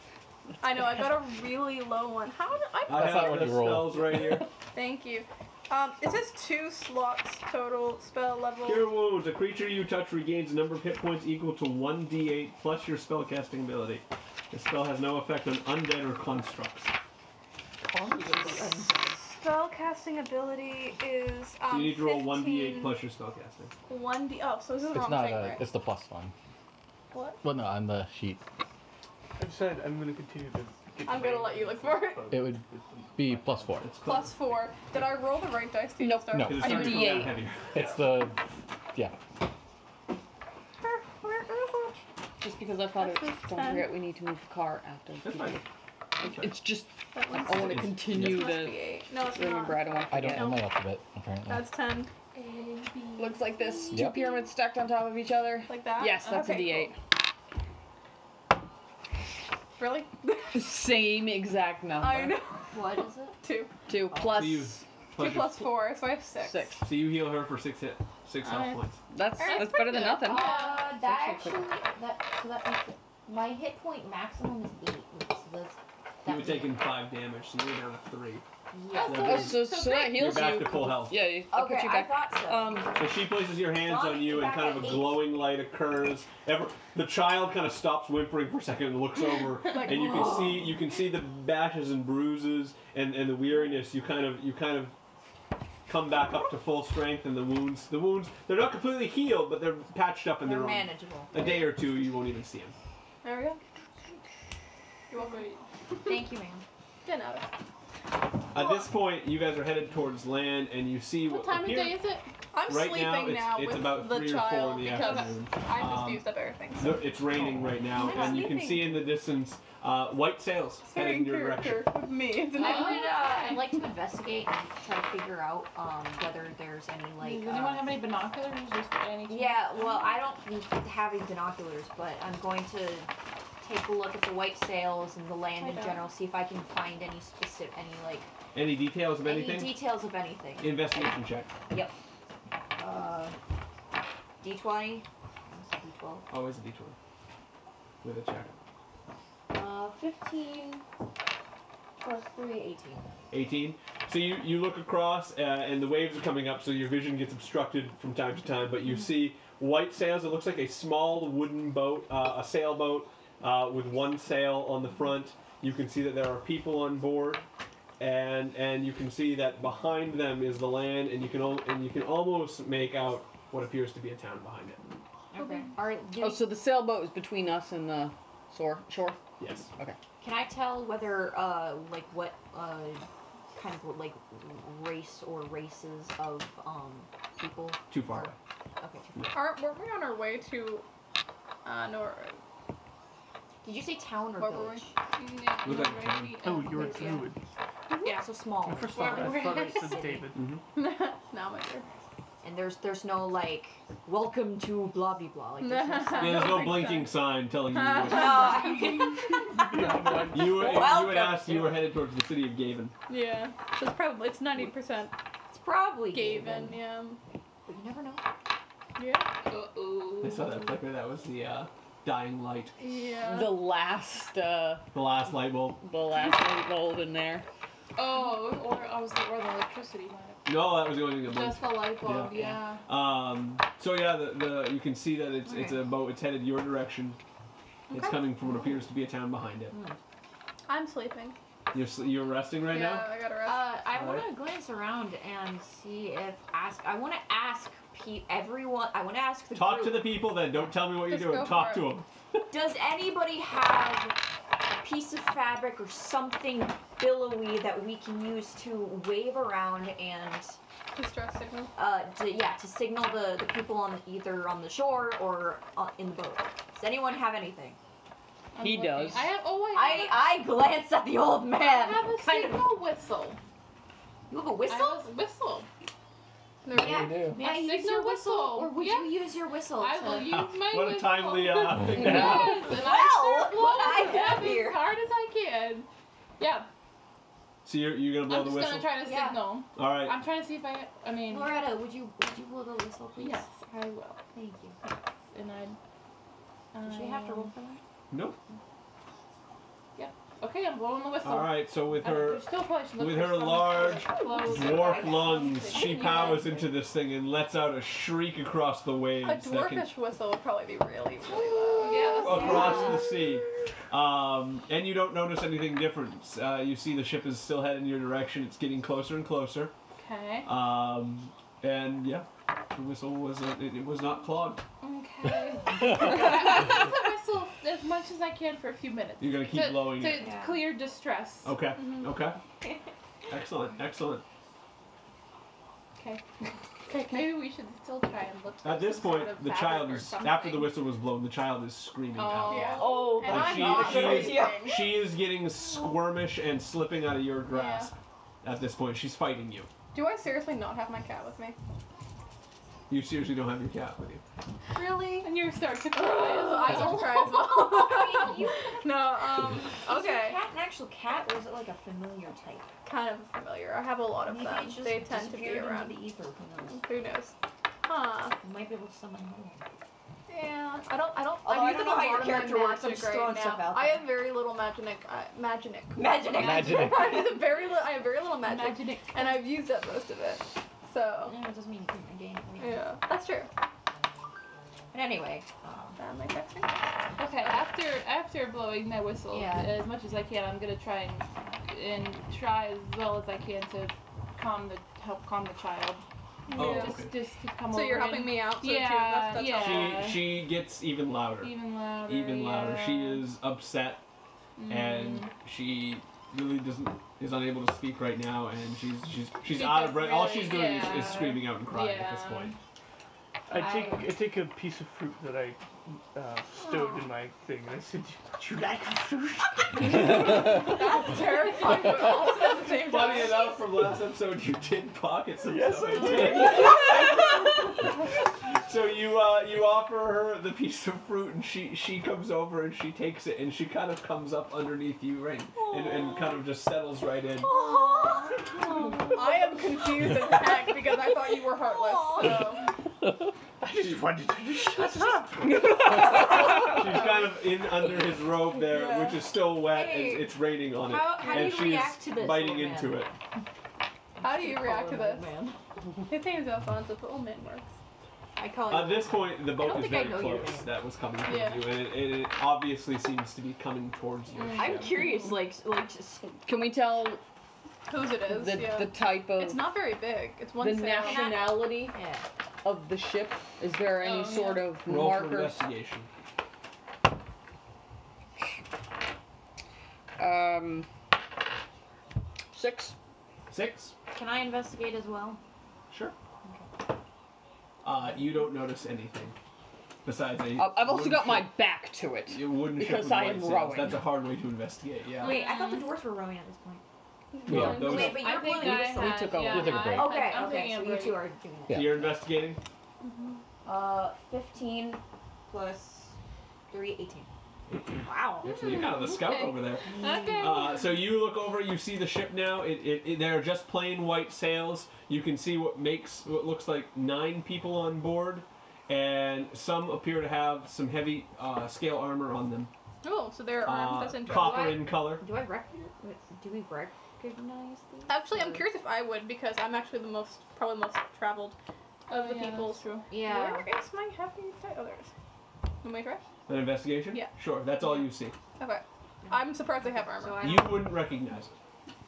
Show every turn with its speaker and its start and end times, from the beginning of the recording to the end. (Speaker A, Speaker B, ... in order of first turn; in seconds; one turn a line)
Speaker A: 0.6-3.4
Speaker B: 2.9-4.5
Speaker C: 2.9-4.5
Speaker A: 4.7-8.9
Speaker B: 8.6-16.9
Speaker D: 17.8-19.2
Speaker A: 19.3-23.0
Speaker B: 21.7-23.7
Speaker A: 23.9-25.6
Speaker C: 24.9-26.3
Speaker A: 27.1-27.4
Speaker C: 27.4-28.4
Speaker E: 29.4-33.8
Speaker A: 31.1-32.2
Speaker C: 32.3-33.9
Speaker B: 33.8-34.5
Speaker A: 34.0-37.4
Speaker F: 36.0-37.4
Speaker C: 36.3-36.8
Speaker B: 36.4-38.0
Speaker C: 37.7-39.1
Speaker A: 40.8-42.0
Speaker F: 42.4-45.6
Speaker A: 43.0-44.0
Speaker B: 45.2-45.6
Speaker B: 46.2-46.6
Speaker F: 46.2-50.6
Speaker A: 47.1-50.7
Speaker B: 47.5-48.5
Speaker C: 50.1-51.7
Speaker A: 51.5-52.1
Speaker G: 52.3-54.1
Speaker F: 53.2-57.0
Speaker C: 53.9-54.2
Speaker A: 55.7-56.9
Speaker A: 59.8-60.8
Speaker F: 60.5-62.4
Speaker A: 62.0-62.7
Speaker D: 62.7-63.4
Speaker A: 63.4-63.7
Speaker F: 63.9-64.8
Speaker D: 64.1-64.7
Speaker B: 64.3-65.7
Speaker A: 65.2-66.7
Speaker F: 66.4-66.9
Speaker B: 66.8-69.0
Speaker F: 69.1-71.7
Speaker A: 69.4-70.2
Speaker G: 69.4-70.9
Speaker D: 70.2-76.8
Speaker B: 76.2-78.4
Speaker D: 78.7-79.5
Speaker G: 78.9-80.4
Speaker B: 79.0-81.3
Speaker F: 79.1-83.0
Speaker D: 81.4-83.2
Speaker B: 83.0-95.0
Speaker D: 83.7-85.3
Speaker A: 89.7-90.5
Speaker D: 90.0-90.6
Speaker B: 95.8-102.8
Speaker D: 100.4-101.6
Speaker A: 103.2-103.6
Speaker A: 105.1-105.5
Speaker G: 105.1-105.6
Speaker D: 106.0-106.6
Speaker A: 107.0-107.5
Speaker B: 108.5-112.0
Speaker A: 108.5-108.9
Speaker G: 111.2-112.3
Speaker A: 112.5-117.1
Speaker B: 112.6-121.9
Speaker G: 114.8-115.4
Speaker A: 117.9-118.9
Speaker D: 118.0-118.7
Speaker A: 120.8-123.1
Speaker D: 122.5-128.0
Speaker G: 122.6-123.7
Speaker G: 127.2-130.2
Speaker D: 129.3-138.3
Speaker A: 135.6-136.1
Speaker B: 138.5-139.8
Speaker D: 139.2-141.9
Speaker B: 140.6-141.6
Speaker D: 142.8-143.3
Speaker D: 144.4-146.2
Speaker B: 146.3-147.0
Speaker B: 148.0-148.5
Speaker D: 149.5-150.8
Speaker D: 152.0-153.1
Speaker B: 153.3-167.4
Speaker B: 168.0-174.8
Speaker D: 175.3-176.5
Speaker A: 175.3-175.7
Speaker F: 176.2-179.2
Speaker B: 179.4-179.7
Speaker D: 180.2-189.2
Speaker B: 187.9-188.3
Speaker A: 189.3-190.8
Speaker A: 191.6-192.4
Speaker D: 193.6-194.9
Speaker A: 194.4-194.8
Speaker G: 195.2-197.3
Speaker B: 195.6-196.4
Speaker E: 196.4-197.4
Speaker D: 196.8-197.2
Speaker D: 198.0-200.3
Speaker E: 198.6-200.5
Speaker G: 198.9-200.0
Speaker B: 200.3-200.6
Speaker A: 200.7-201.9
Speaker D: 202.4-206.8
Speaker A: 205.6-209.5
Speaker B: 206.2-208.7
Speaker D: 208.0-211.8
Speaker E: 209.6-210.6
Speaker B: 210.3-212.9
Speaker A: 213.1-215.1
Speaker D: 215.5-216.8
Speaker A: 216.1-217.2
Speaker D: 217.7-218.2
Speaker A: 219.0-219.3
Speaker G: 219.4-220.7
Speaker B: 220.2-222.8
Speaker A: 222.8-223.6
Speaker F: 223.2-224.9
Speaker B: 224.9-225.8
Speaker F: 225.8-227.4
Speaker G: 227.9-232.8
Speaker B: 230.4-237.2
Speaker D: 235.4-235.8
Speaker A: 237.9-238.2
Speaker B: 237.9-239.8
Speaker D: 239.7-240.0
Speaker A: 240.7-241.4
Speaker B: 241.7-243.1
Speaker A: 242.7-243.7
Speaker D: 243.4-250.2
Speaker B: 243.9-244.3
Speaker B: 249.5-252.4
Speaker A: 251.1-251.9
Speaker D: 252.5-260.6
Speaker A: 260.9-261.7
Speaker D: 261.8-267.8
Speaker G: 268.5-270.4
Speaker F: 268.6-269.3
Speaker D: 269.7-272.7
Speaker G: 271.6-273.4
Speaker D: 274.3-275.1
Speaker G: 274.6-275.7
Speaker A: 276.6-277.1
Speaker D: 276.7-280.4
Speaker C: 276.7-277.4
Speaker G: 277.4-285.9
Speaker B: 280.3-282.7
Speaker D: 282.1-284.9
Speaker G: 286.4-286.7
Speaker B: 287.6-288.9
Speaker G: 288.3-291.6
Speaker D: 289.0-289.5
Speaker B: 289.8-290.2
Speaker D: 291.3-293.5
Speaker G: 293.2-294.2
Speaker D: 294.3-294.8
Speaker G: 295.3-295.8
Speaker G: 296.7-297.5
Speaker D: 296.8-297.8
Speaker B: 298.1-298.4
Speaker G: 299.9-306.6
Speaker B: 301.2-309.9
Speaker D: 304.1-306.6
Speaker A: 309.2-312.2
Speaker G: 311.8-312.9
Speaker D: 312.1-313.2
Speaker B: 312.2-319.7
Speaker G: 320.0-320.5
Speaker B: 320.4-324.6
Speaker G: 324.8-331.6
Speaker B: 329.2-330.3
Speaker D: 330.1-330.7
Speaker B: 331.4-332.4
Speaker A: 331.8-332.1
Speaker B: 333.3-334.2
Speaker G: 336.0-336.2
Speaker G: 336.9-340.4
Speaker B: 338.6-349.7
Speaker G: 342.1-343.3
Speaker A: 342.5-344.9
Speaker D: 342.8-344.9
Speaker A: 347.5-347.9
Speaker A: 349.9-351.6
Speaker B: 352.9-354.2
Speaker A: 354.8-355.2
Speaker G: 355.2-357.1
Speaker A: 355.9-360.4
Speaker D: 356.6-358.7
Speaker D: 359.7-362.7
Speaker A: 362.8-366.0
Speaker D: 364.2-366.8
Speaker A: 366.7-368.4
Speaker D: 368.4-369.7
Speaker A: 370.3-381.4
Speaker D: 371.4-374.2
Speaker D: 375.9-377.5
Speaker C: 376.4-377.1
Speaker G: 378.4-379.5
Speaker D: 381.2-382.9
Speaker A: 382.6-383.5
Speaker D: 384.9-386.0
Speaker A: 386.0-386.9
Speaker G: 387.2-400.4
Speaker D: 389.3-389.8
Speaker A: 396.5-397.0
Speaker B: 396.5-397.1
Speaker A: 397.7-400.1
Speaker B: 399.5-404.0
Speaker G: 401.4-403.3
Speaker G: 404.6-405.3
Speaker B: 404.6-412.6
Speaker G: 409.5-412.6
Speaker E: 413.5-420.2
Speaker G: 413.6-414.0
Speaker D: 416.6-417.1
Speaker A: 419.8-423.6
Speaker D: 421.5-422.7
Speaker B: 422.7-427.9
Speaker E: 425.4-427.1
Speaker D: 426.3-427.3
Speaker B: 428.5-437.5
Speaker D: 435.6-436.4
Speaker D: 437.4-440.5
Speaker A: 439.1-442.7
Speaker D: 441.4-442.6
Speaker E: 443.6-445.4
Speaker B: 443.8-445.3
Speaker D: 445.0-447.2
Speaker F: 445.5-446.1
Speaker B: 446.1-453.1
Speaker A: 448.6-449.2
Speaker D: 449.5-453.1
Speaker D: 454.1-455.6
Speaker A: 454.2-455.3
Speaker A: 456.1-457.7
Speaker D: 458.4-460.7
Speaker B: 458.7-465.1
Speaker A: 461.2-461.7
Speaker G: 464.4-465.4
Speaker D: 464.5-466.4
Speaker F: 466.4-467.2
Speaker A: 467.9-471.4
Speaker F: 468.2-469.7
Speaker F: 470.6-471.9
Speaker D: 470.9-472.3
Speaker F: 472.6-475.6
Speaker G: 474.0-474.7
Speaker B: 474.8-476.1
Speaker F: 480.2-480.9
Speaker F: 482.5-482.9
Speaker B: 483.5-483.9
Speaker D: 484.1-485.4
Speaker B: 485.9-486.1
Speaker B: 487.8-489.4
Speaker B: 490.0-491.6
Speaker F: 490.5-494.1
Speaker B: 492.3-495.4
Speaker D: 495.2-496.8
Speaker G: 495.2-495.9
Speaker A: 497.3-498.2
Speaker C: 497.5-497.9
Speaker B: 497.5-498.3
Speaker D: 497.5-502.1
Speaker G: 497.9-501.3
Speaker F: 498.6-499.9
Speaker C: 499.5-500.2
Speaker C: 501.7-502.1
Speaker B: 501.7-502.6
Speaker D: 503.6-506.2
Speaker D: 506.7-507.3
Speaker B: 507.7-522.7
Speaker D: 507.9-508.8
Speaker G: 509.1-510.8
Speaker D: 509.9-510.6
Speaker A: 523.0-524.9
Speaker B: 523.6-525.2
Speaker D: 524.3-528.6
Speaker A: 528.1-531.6
Speaker G: 532.1-533.0
Speaker A: 532.1-535.1
Speaker D: 533.1-533.7
Speaker A: 535.8-536.2
Speaker B: 536.5-538.4
Speaker A: 538.6-540.7
Speaker D: 539.3-540.9
Speaker B: 540.4-541.5